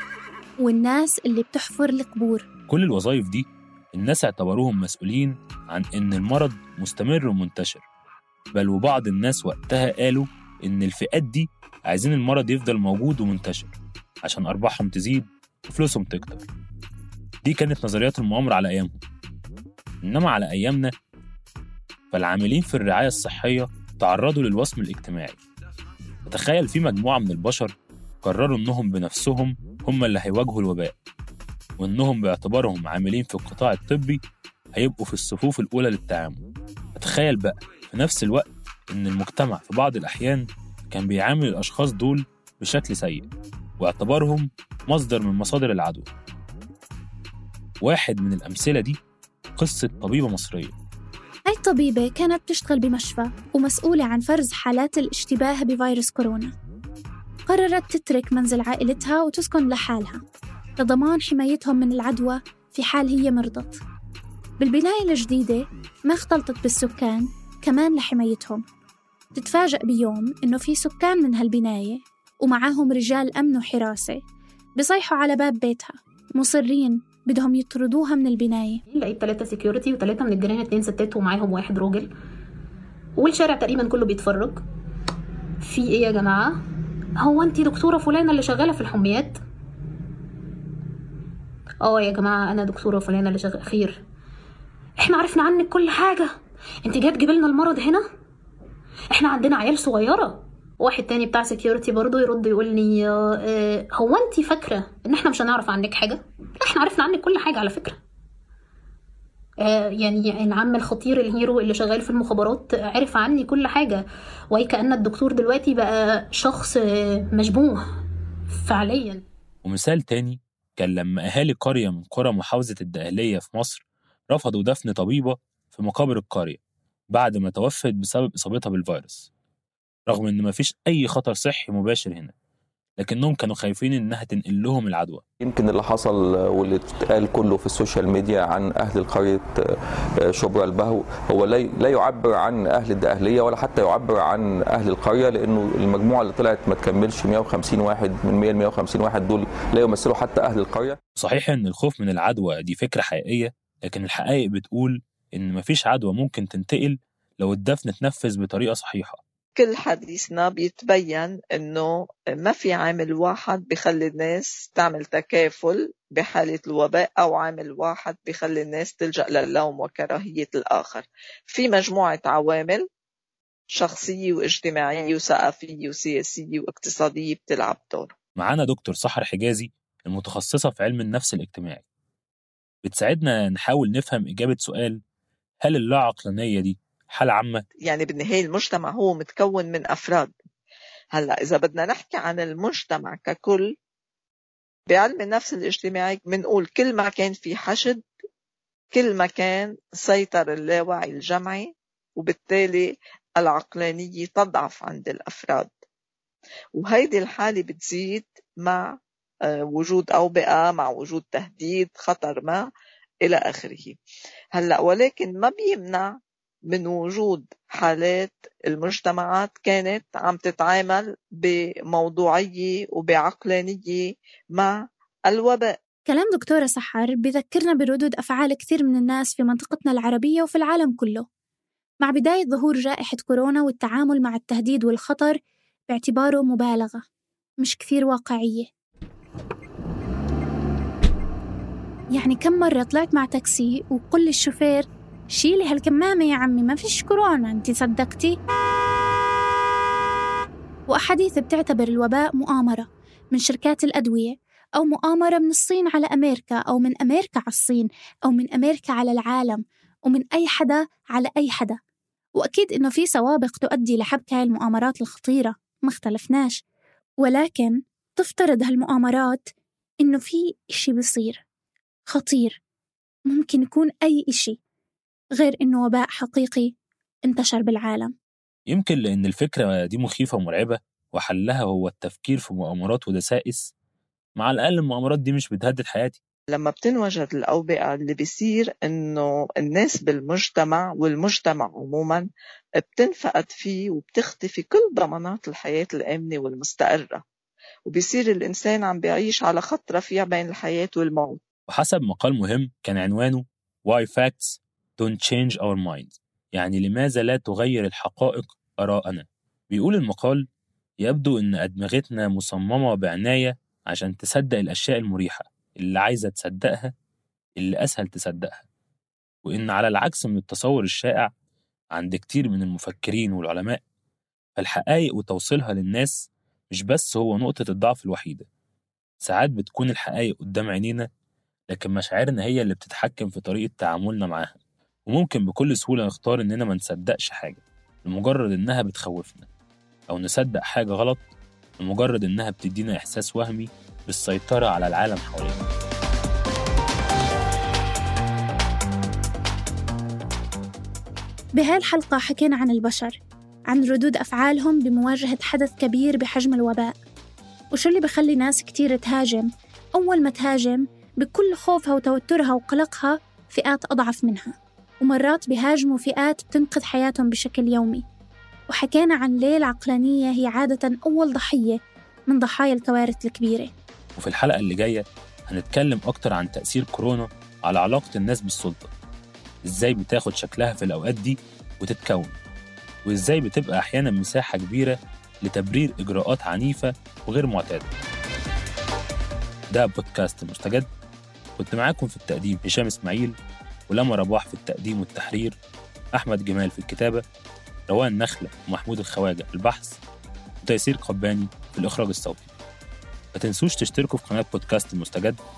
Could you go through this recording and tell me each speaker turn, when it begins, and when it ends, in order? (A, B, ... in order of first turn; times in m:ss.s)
0:00.6-0:02.4 A
0:02.7-0:07.8 B
0:08.5-0:16.4 B
0:17.4-0:19.0 B
0:20.0-0:20.9 B
0:22.1-0:25.4 B
0:26.3-0:30.9 B
0:31.8-0:34.2 B
0:34.7-0:36.4 B
0:37.0-0:43.3 B
0:43.8-0:46.1 B
0:47.8-0:49.0 B
0:49.6-0:50.7 B
0:51.5-0:56.5 A
0:57.5-1:00.2 A
1:00.8-1:03.8 A
1:04.6-1:08.6 A
1:09.3-1:14.2 A
1:14.8-1:18.8 A
1:18.9-1:22.1 C
1:23.2-1:24.6 C
1:25.6-1:26.6 C
1:27.2-1:29.4 C
1:31.8-1:34.0 C
1:35.0-1:36.3 C
1:36.8-1:38.0 C
1:39.1-1:48.0 C
1:49.6-1:57.8 C
1:58.6-1:59.2 C
1:59.6-2:06.6 B
2:07.1-2:09.3 B
2:10.1-2:12.3 B
2:13.0-2:15.2 B
2:15.4-2:19.5 D
2:20.3-2:30.9 D
2:31.2-2:39.2 B
2:39.6-2:52.8 E
2:53.7-2:58.1 E
2:58.4-3:01.8 B
3:02.8-3:05.0 B
3:05.6-3:07.6 B
3:07.8-3:10.3 E
3:11.1-3:13.7 E
3:14.9-3:18.0 E
3:18.9-3:25.7 E
3:26.8-3:29.0 E
3:29.5-3:32.7 E
3:33.2-3:34.0 E
3:34.5-3:36.2 E
3:36.7-3:45.7 E
3:46.1-3:51.2 A
3:52.0-3:55.4 A
3:55.9-3:57.0 A
3:57.6-3:58.7 A
4:02.1-4:08.4 A
4:10.9-4:21.8 A
4:22.4-4:26.6 A
4:27.2-4:29.4 A
4:30.0-4:31.4 A
4:32.1-4:32.6 A
4:33.3-4:34.6 A
4:35.4-4:36.7 A
4:37.2-4:38.1 A
4:38.7-4:43.7 B
4:44.4-4:46.2 B
4:46.5-4:52.3 E
4:52.8-4:57.2 E
4:57.9-5:01.4 E
5:01.7-5:10.5 B
5:11.0-5:16.9 B
5:17.6-5:18.6 B
5:19.4-5:21.3 B
5:21.9-5:23.8 B
5:24.6-5:28.5 B
5:29.2-5:31.0 B
5:31.7-5:34.6 B
5:35.1-5:39.5 B
5:40.1-5:41.2 B
5:41.8-5:45.6 B
5:51.6-5:53.2 A
5:53.7-5:56.9 A
5:57.7-6:08.0 A
6:08.7-6:11.8 A
6:12.3-6:13.7 A
6:14.2-6:18.9 B
6:19.6-6:22.4 B
6:23.0-6:27.9 B
6:29.7-6:30.9 B
6:31.6-6:33.3 B
6:33.9-6:35.6 B
6:36.2-6:37.2 B
6:37.9-6:40.0 B
6:40.6-6:42.5 B
6:43.3-6:45.4 B